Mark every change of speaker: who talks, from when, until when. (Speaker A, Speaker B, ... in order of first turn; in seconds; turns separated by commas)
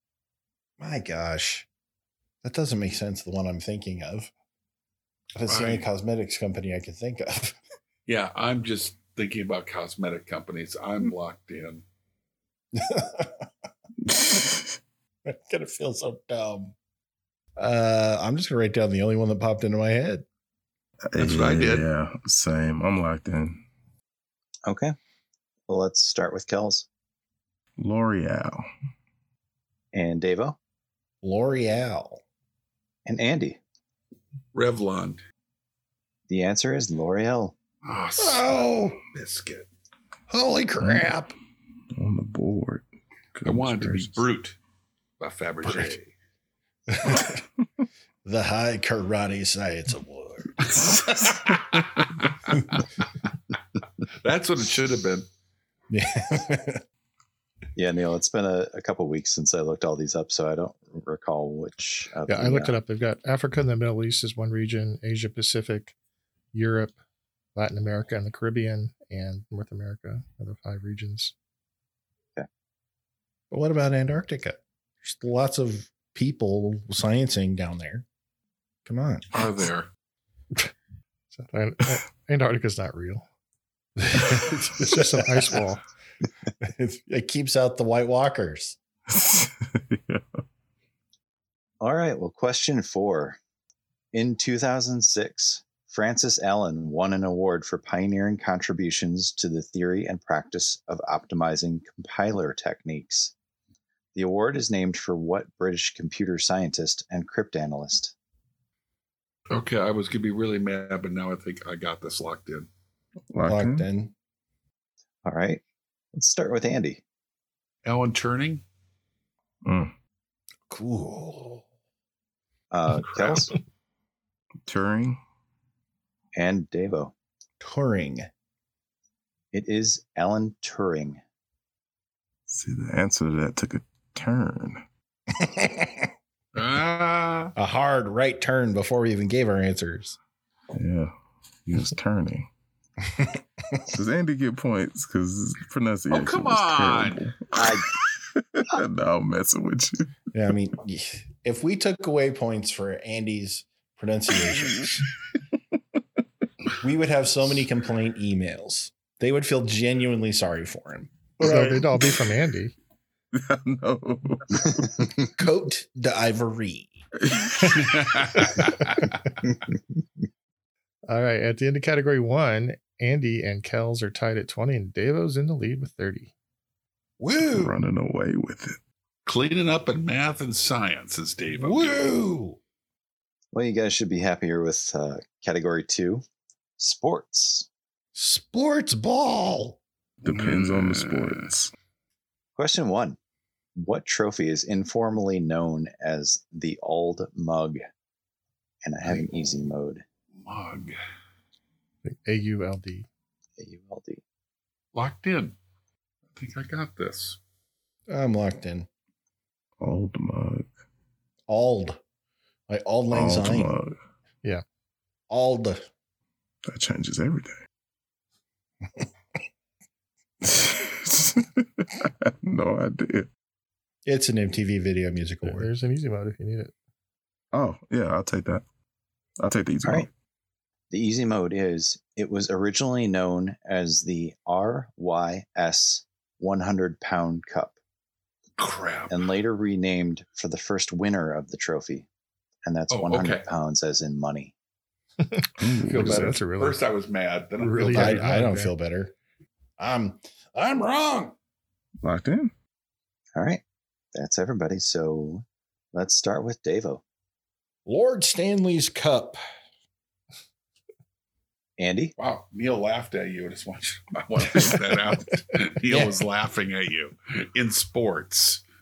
Speaker A: 0.8-1.7, Speaker A: 2.4-4.3, Speaker A: 5.3-7.6, Speaker B: 5.5-5.8, Speaker B: 8.1-11.8, Speaker A: 12.7-13.5, Speaker C: 14.1-14.8, Speaker A: 15.2-16.7, Speaker A: 17.6-20.3, Speaker C: 21.1-23.6, Speaker B: 21.2-21.9, Speaker D: 24.7-24.9, Speaker D: 25.7-26.9, Speaker C: 27.8-28.6, Speaker D: 29.9-30.6, Speaker A: 31.2-32.2, Speaker D: 33.1-33.6, Speaker B: 34.5-35.2, Speaker D: 36.3-37.5, Speaker B: 37.8-39.7, Speaker A: 38.2-39.0, Speaker A: 40.3-41.3, Speaker C: 40.8-41.1, Speaker C: 41.9-44.2, Speaker B: 43.5-44.6, Speaker B: 45.2-46.1, Speaker A: 46.9-47.4, Speaker A: 48.2-50.8, Speaker B: 50.7-52.8, Speaker B: 54.2-55.3, Speaker A: 55.9-56.8, Speaker D: 57.8-62.8, Speaker E: 62.3-65.9, Speaker E: 66.5-67.0, Speaker E: 67.5-71.3, Speaker A: 73.5-78.1, Speaker A: 78.9-79.3, Speaker B: 79.3-79.9, Speaker E: 81.3-83.2, Speaker A: 84.0-85.5, Speaker E: 84.8-85.8, Speaker A: 86.6-88.8, Speaker C: 89.1-90.3, Speaker D: 91.8-93.4, Speaker D: 94.1-103.3, Speaker D: 104.2-108.1, Speaker B: 109.5-112.7, Speaker C: 113.3-113.9, Speaker A: 113.5-114.1, Speaker D: 115.2-115.6, Speaker D: 116.1-117.0, Speaker B: 117.8-118.6, Speaker C: 119.7-119.9, Speaker A: 120.7-121.7, Speaker D: 122.7-123.5, Speaker B: 122.9-123.5, Speaker C: 124.7-125.2, Speaker D: 126.3-127.1, Speaker A: 127.6-128.3, Speaker D: 129.5-131.2, Speaker C: 132.5-134.8, Speaker A: 135.3-136.1, Speaker B: 136.6-137.5, Speaker A: 137.6-140.2, Speaker C: 140.7-141.1, Speaker C: 141.7-142.5, Speaker A: 143.1-143.8, Speaker C: 143.9-147.8, Speaker B: 146.1-147.2, Speaker D: 147.6-147.9, Speaker C: 148.4-150.2, Speaker A: 150.3-155.1, Speaker A: 156.8-161.7, Speaker E: 161.4-162.8, Speaker C: 163.3-164.9, Speaker A: 165.4-167.1, Speaker C: 167.3-167.9, Speaker B: 167.8-169.1, Speaker E: 171.1-176.3, Speaker A: 177.2-177.7, Speaker C: 177.4-178.8, Speaker B: 179.3-182.1, Speaker A: 181.6-182.6, Speaker D: 183.5-186.2, Speaker D: 186.8-187.7, Speaker A: 188.2-189.8, Speaker C: 190.2-191.7, Speaker B: 190.3-191.5, Speaker D: 192.6-193.2, Speaker D: 193.8-197.8, Speaker D: 198.8-200.0, Speaker B: 200.4-201.0, Speaker E: 202.0-203.1, Speaker D: 203.6-204.2, Speaker B: 204.9-205.6, Speaker B: 206.3-207.4, Speaker A: 208.1-208.9, Speaker C: 209.8-210.7, Speaker A: 211.5-212.0, Speaker A: 212.7-213.8, Speaker C: 213.1-214.0, Speaker A: 215.3-215.9, Speaker C: 216.7-217.6, Speaker C: 220.4-223.3, Speaker A: 224.1-225.7, Speaker E: 225.4-226.7, Speaker C: 227.5-228.6, Speaker C: 229.4-230.1, Speaker D: 230.9-237.8, Speaker B: 238.6-239.3, Speaker D: 239.1-242.1, Speaker D: 242.7-244.5, Speaker B: 242.9-243.5, Speaker E: 245.2-246.8, Speaker C: 245.6-246.4, Speaker B: 245.9-248.3, Speaker E: 247.6-248.7, Speaker A: 247.9-249.1, Speaker A: 249.8-251.3, Speaker C: 252.0-252.5, Speaker D: 253.4-253.6, Speaker D: 254.2-257.0, Speaker A: 257.9-259.4, Speaker D: 261.8-262.1, Speaker B: 262.2-268.6, Speaker A: 265.9-266.2